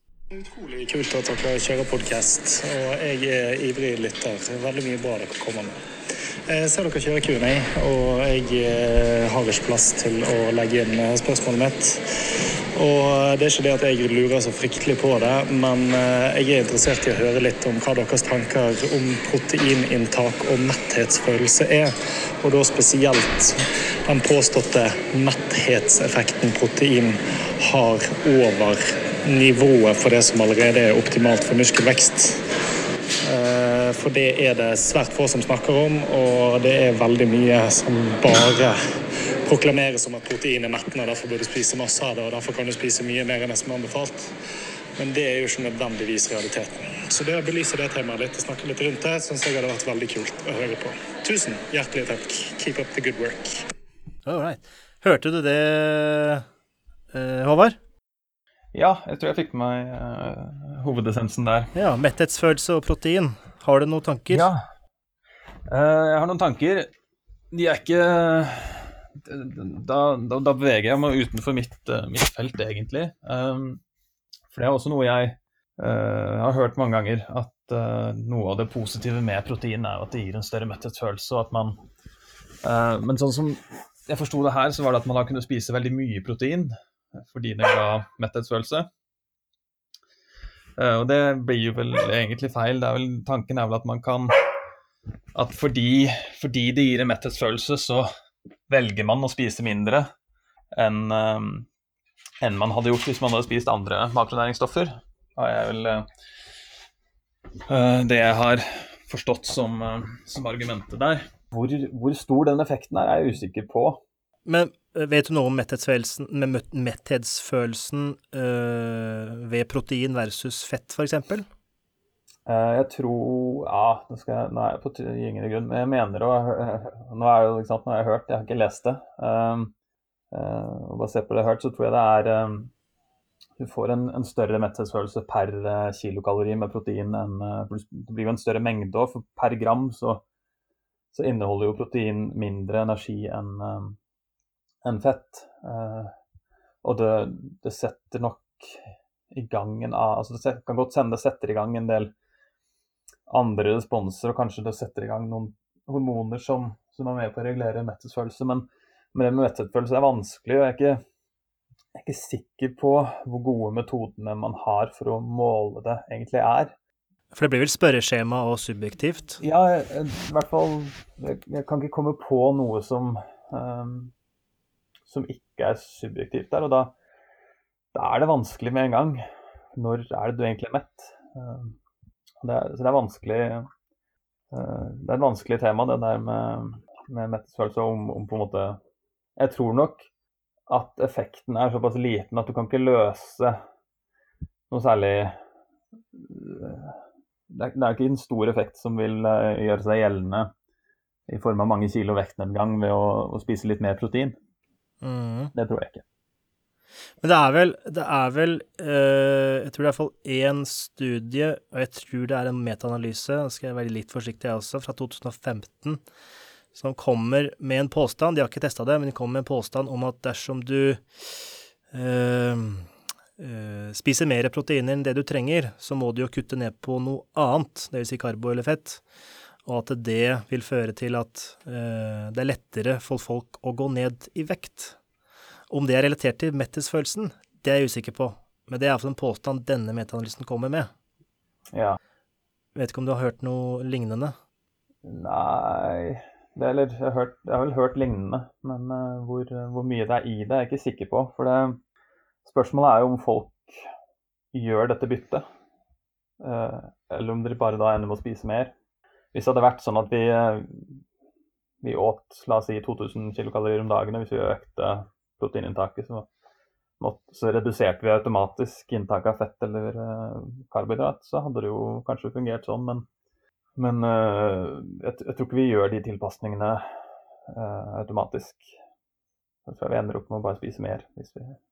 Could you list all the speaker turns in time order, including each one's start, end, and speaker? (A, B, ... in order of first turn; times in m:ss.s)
0:00.3-0:12.0 A
0:12.7-0:32.4 A
0:33.2-0:38.8 A
0:39.4-0:44.3 A
0:45.0-0:53.6 A
0:54.2-0:56.4 B
0:57.1-0:57.8 B
0:58.7-1:01.7 C
1:01.7-1:04.5 B
1:04.3-1:04.6 C
1:05.7-1:06.9 C
1:07.5-1:13.8 C
1:14.5-1:21.8 C
1:22.6-1:28.9 C
1:30.8-1:34.5 C
1:35.3-1:38.1 C
1:38.7-1:40.1 C
1:40.7-1:41.7 C
1:42.4-1:46.1 C
1:47.7-1:54.0 C
1:54.4-2:01.4 B
2:02.4-2:09.7 C
2:10.3-2:12.7 C
2:13.6-2:20.2 C
2:21.1-2:24.0 C
2:24.8-2:26.1 C
2:26.8-2:32.1 C
2:33.3-2:41.0 C
2:41.9-2:46.7 C
2:47.3-2:49.4 B
2:49.4-2:54.1 C
2:55.0-2:56.9 C
2:57.9-2:59.2 C
2:59.7-3:01.8 C
3:02.4-3:03.7 C
3:04.5-3:08.8 C
3:09.4-3:10.1 C
3:10.7-3:13.6 C
3:14.7-3:15.4 C
3:16.1-3:20.5 C
3:21.3-3:24.4 C
3:25.0-3:25.5 B
3:25.5-3:26.0 C
3:27.2-3:36.0 B
3:36.7-3:49.0 B
3:49.6-3:55.0 B
3:55.7-4:00.9 B
4:01.7-4:02.0 C
4:02.7-4:04.3 B
4:05.0-4:11.8 C
4:12.4-4:13.9 C
4:14.5-4:15.4 C
4:16.4-4:18.7 C
4:19.3-4:21.0 C
4:21.8-4:26.3 C
4:27.0-4:33.1 C
4:33.8-4:36.8 C
4:37.5-4:38.7 C
4:39.6-4:41.6 C